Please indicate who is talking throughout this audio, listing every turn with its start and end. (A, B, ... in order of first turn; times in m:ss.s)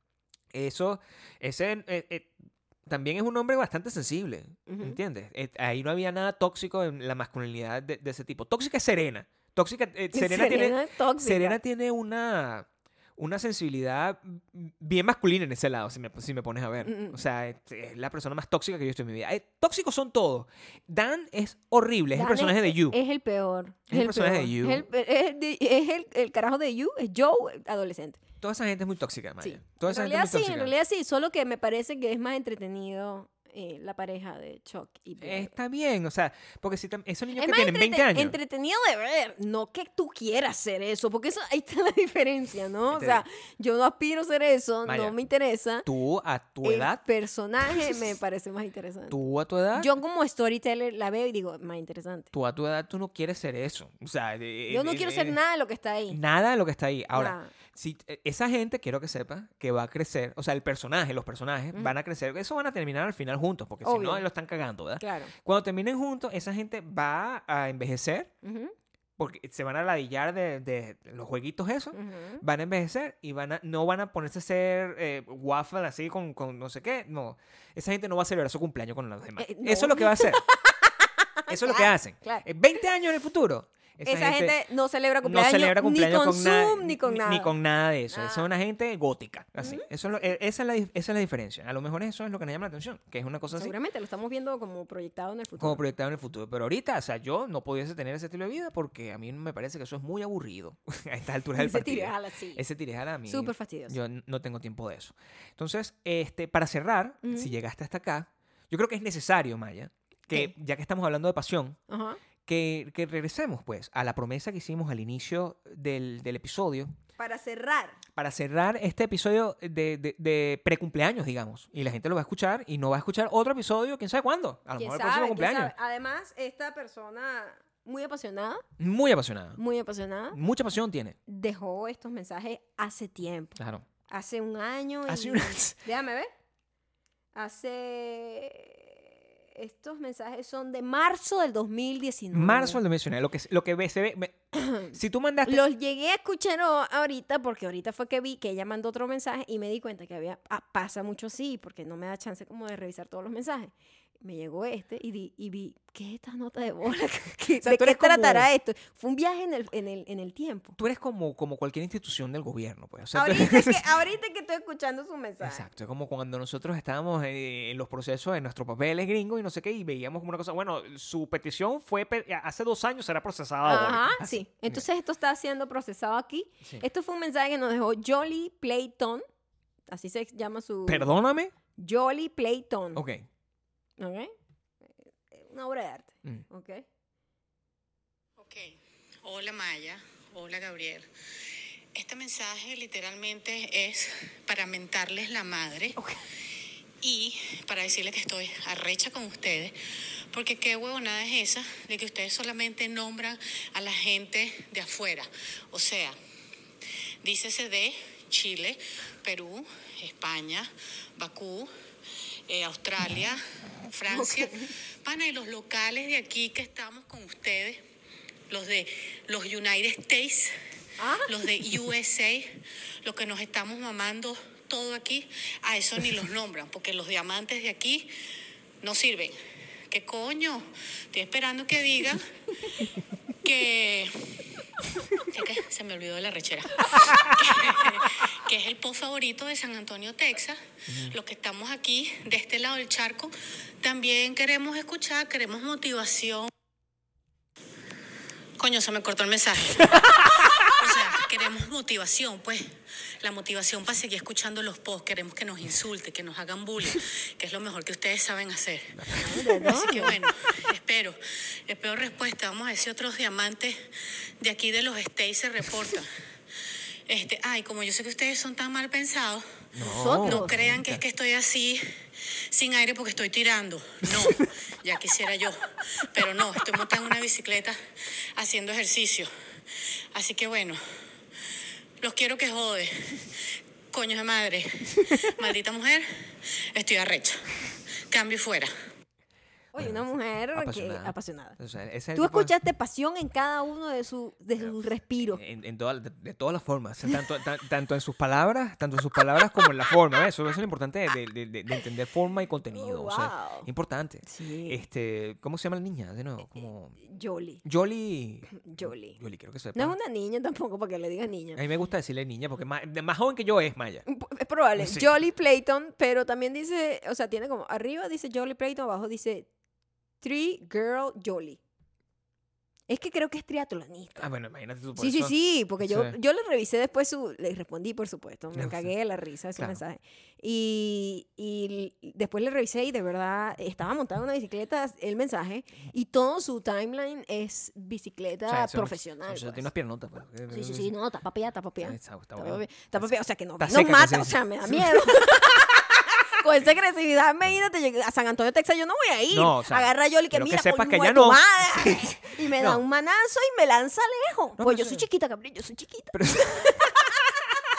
0:00.5-0:02.3 A
0:02.9-0:23.0 A
0:04.7-0:05.0 B
0:10.1-0:11.6 B
0:16.8-0:17.2 B
0:22.1-0:28.2 B
0:23.9-0:24.8 A
0:28.4-0:30.7 A
0:29.4-0:35.5 B
0:35.2-0:38.4 A
0:37.3-0:45.9 B
0:42.9-0:43.2 A
0:44.8-0:45.2 A
0:45.8-0:47.0 A
0:46.6-0:49.2 B
0:47.6-0:48.0 A
0:49.1-0:49.9 A
0:49.7-0:52.3 B
0:52.3-0:55.4 A
0:54.7-0:56.2 B
0:56.1-1:08.3 A
0:57.1-0:57.5 B
1:03.8-1:04.2 B
1:05.0-1:05.3 B
1:08.4-1:08.7 B
1:09.2-1:20.4 A
1:11.9-1:12.4 B
1:19.4-1:22.4 B
1:21.5-1:24.6 A
1:24.0-1:27.5 B
1:25.2-1:33.7 A
1:28.1-1:28.5 B
1:29.6-1:29.9 B
1:33.5-1:35.8 B
1:35.6-1:51.8 A
1:41.6-1:42.6 B
1:43.3-1:44.0 B
1:47.2-1:47.5 B
1:51.9-1:52.2 B
1:52.4-1:56.9 A
1:57.2-1:58.0 B
1:58.2-2:05.7 A
2:04.8-2:08.6 B
2:08.8-2:09.6 A
2:09.6-2:10.4 B
2:10.3-2:11.2 A
2:11.3-2:16.3 B
2:13.6-2:13.8 A
2:15.1-2:15.8 A
2:17.3-2:22.8 B
2:22.3-2:25.6 A
2:24.5-2:24.9 B
2:25.4-2:40.8 B
2:37.6-2:38.5 A
2:40.8-2:43.9 A
2:43.1-2:45.6 B
2:45.4-2:54.8 A
2:53.6-2:59.2 B
2:59.9-3:01.1 B
3:00.9-3:01.5 A
3:01.8-3:03.0 B
3:02.9-3:03.2 A
3:04.0-3:04.3 B
3:05.3-3:06.8 B
3:08.4-3:16.0 C
3:17.0-3:19.8 C
3:20.3-3:26.2 C
3:27.2-3:31.7 C
3:32.5-3:37.8 C
3:34.1-3:34.7 B
3:38.5-3:40.6 C
3:41.0-3:41.4 B
3:41.2-3:48.1 C
3:48.8-3:49.4 C
3:49.9-3:52.9 C
3:53.4-4:06.5 C
4:00.9-4:01.2 A
4:08.6-4:26.1 C
4:09.9-4:10.7 A
4:18.9-4:19.8 A
4:19.2-4:20.2 B
4:27.1-4:29.5 C
4:29.7-4:31.0 A
4:29.8-4:30.6 B
4:30.1-4:40.8 C
4:34.0-4:34.5 A
4:42.0-4:48.7 C
4:49.7-4:51.6 B
4:49.8-4:52.5 A
4:52.2-4:55.4 B
4:54.6-5:06.9 A
5:02.7-5:03.7 B
5:04.2-5:04.8 B
5:07.0-5:07.6 B
5:07.6-5:09.9 A
5:08.5-5:09.2 B
5:09.7-5:11.6 B
5:11.5-5:14.0 A
5:14.1-5:19.5 B
5:14.8-5:15.1 A
5:20.2-5:21.6 B
5:22.9-5:24.3 B
5:24.2-5:26.1 A
5:25.0-5:39.7 B
5:28.6-5:28.9 A
5:38.5-5:40.9 A
5:40.5-5:57.4 B
5:41.8-5:45.7 A
5:49.3-5:52.8 A
5:54.6-5:55.0 A
5:56.1-5:57.3 A